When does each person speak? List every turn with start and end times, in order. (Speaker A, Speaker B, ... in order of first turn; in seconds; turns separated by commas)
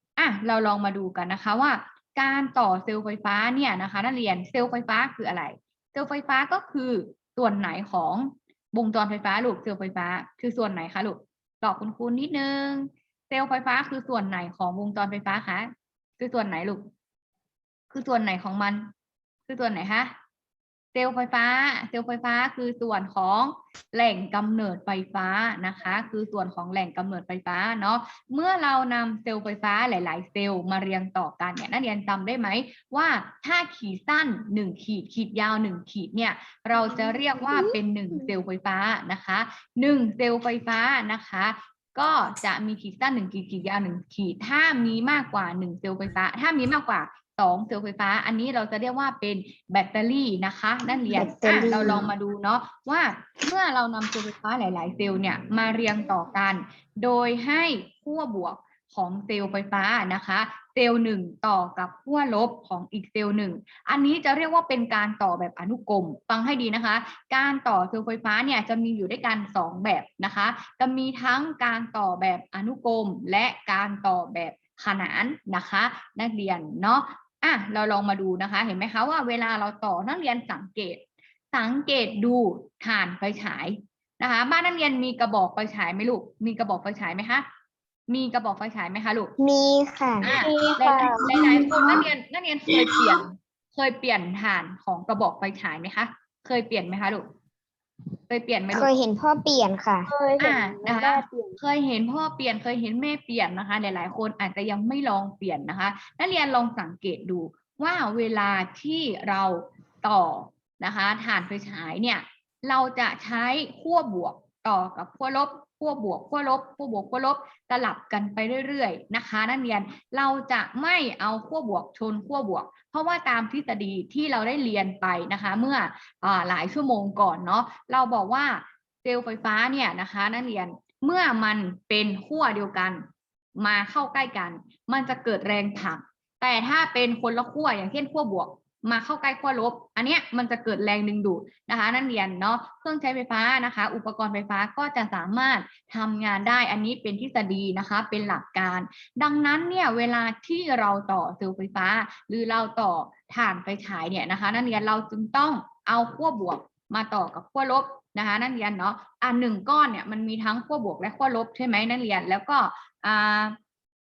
Speaker A: 0.2-16.9, Speaker A: 17.9-18.9, Speaker A: 19.5-20.1, Speaker A: 20.9-87.5, Speaker B: 37.2-37.8, Speaker B: 51.1-52.1, Speaker A: 88.1-89.3, Speaker B: 89.4-90.4, Speaker A: 90.2-97.3, Speaker C: 90.3-92.0, Speaker A: 98.3-98.9, Speaker B: 98.7-100.1, Speaker C: 100.2-101.5, Speaker A: 100.4-133.0, Speaker A: 133.6-163.6